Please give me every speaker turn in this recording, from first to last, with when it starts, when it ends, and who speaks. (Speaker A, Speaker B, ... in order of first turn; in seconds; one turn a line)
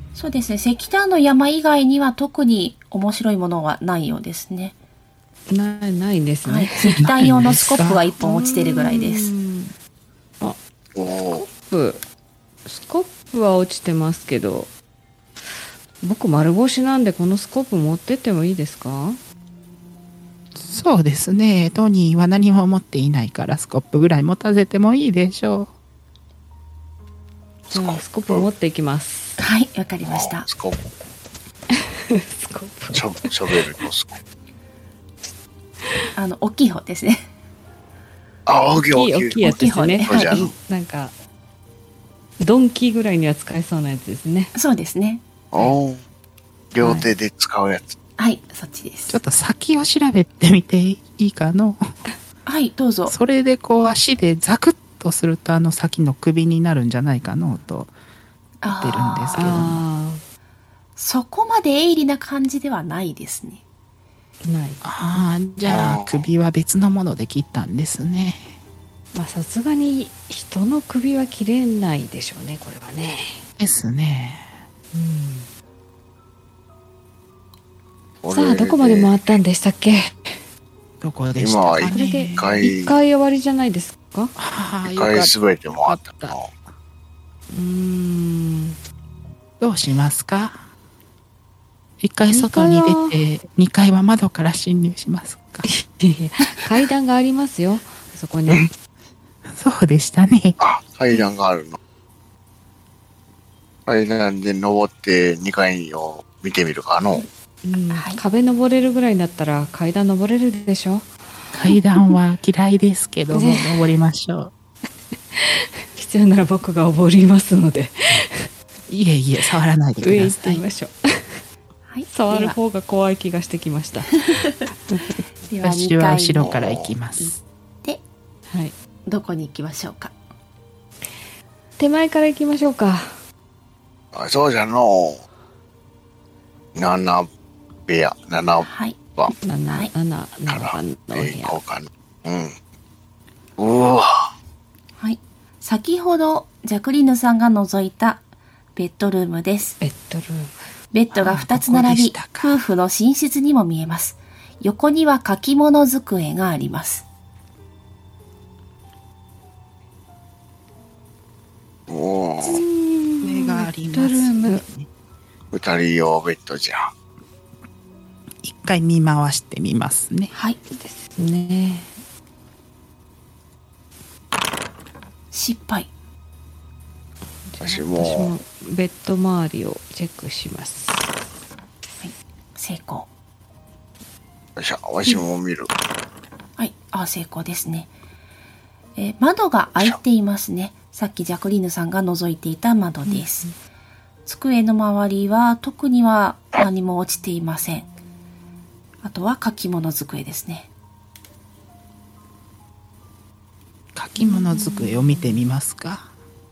Speaker A: 0.1-4.7
Speaker B: 5.5-7.1
Speaker A: 6.4-9.3
Speaker C: 7.0-8.0
Speaker B: 8.2-9.7
Speaker D: 10.9-11.4
Speaker B: 11.2-12.0
Speaker B: 12.7-14.7
Speaker B: 16.0-19.2
Speaker C: 20.6-25.7
Speaker D: 27.7-28.5
Speaker B: 27.7-29.4
Speaker A: 29.4-30.5
Speaker D: 30.0-30.9
Speaker B: 31.7-33.6
Speaker D: 32.9-34.2
Speaker A: 36.1-37.2
Speaker D: 38.5-40.5
Speaker B: 38.8-41.1
Speaker A: 39.4-40.5
Speaker B: 42.4-44.5
Speaker A: 44.5-45.2
Speaker D: 45.5-46.0
Speaker D: 46.7-48.0
Speaker B: 46.8-47.1
Speaker A: 48.2-49.2
Speaker C: 49.1-51.9
Speaker A: 52.5-53.1
Speaker C: 53.1-57.9
Speaker A: 58.6-59.6
Speaker C: 58.6-59.8
Speaker B: 59.4-60.2
Speaker A: 61.0-63.6
Speaker B: 64.4-64.8
Speaker C: 64.8-68.5
Speaker D: 65.6-66.2
Speaker B: 69.1-73.4
Speaker C: 73.6-74.6
Speaker B: 74.9-75.5
Speaker D: 78.2-79.2
Speaker B: 78.3-80.4
Speaker C: 81.0-82.4
Speaker D: 81.4-83.0
Speaker B: 81.9-84.3
Speaker C: 84.4-86.4
Speaker D: 84.8-86.5
Speaker B: 87.5-88.8
Speaker C: 89.6-90.6
Speaker C: 92.0-95.7
Speaker B: 92.3-93.2
Speaker B: 95.6-98.7
Speaker C: 99.5-100.6
Speaker D: 100.6-101.8
Speaker D: 103.8-107.2
Speaker B: 107.6-111.1
Speaker A: 107.9-108.2
Speaker C: 111.5-114.5
Speaker B: 111.7-112.1
Speaker B: 113.3-113.9
Speaker B: 115.3-118.5
Speaker C: 118.9-120.6
Speaker B: 120.0-121.4
Speaker A: 121.9-122.5
Speaker B: 122.1-124.2
Speaker B: 124.9-125.2
Speaker A: 125.5-127.3
Speaker C: 125.6-127.4
Speaker D: 126.4-126.9
Speaker B: 128.5-128.7
Speaker A: 129.1-130.1
Speaker B: 131.8-133.2
Speaker D: 134.1-135.2
Speaker D: 136.7-137.3
Speaker D: 137.9-139.3
Speaker A: 138.6-139.0
Speaker B: 139.3-141.6
Speaker D: 140.5-142.6
Speaker D: 143.6-144.3
Speaker A: 145.0-148.2
Speaker A: 148.8-149.8
Speaker B: 149.8-150.5
Speaker A: 150.9-157.0
Speaker C: 151.1-152.6
Speaker D: 161.9-162.6
Speaker B: 162.5-164.6
Speaker C: 163.2-164.9
Speaker D: 165.5-166.9
Speaker C: 168.4-170.3
Speaker A: 170.3-170.6
Speaker B: 170.7-171.9
Speaker A: 175.3-175.9
Speaker B: 177.5-181.2
Speaker D: 177.6-178.3
Speaker A: 182.0-183.1
Speaker D: 184.6-185.7
Speaker A: 186.6-187.9
Speaker A: 189.0-193.5
Speaker B: 193.1-193.5
Speaker A: 194.2-197.9
Speaker A: 199.0-200.7
Speaker C: 203.9-206.1
Speaker B: 204.2-205.4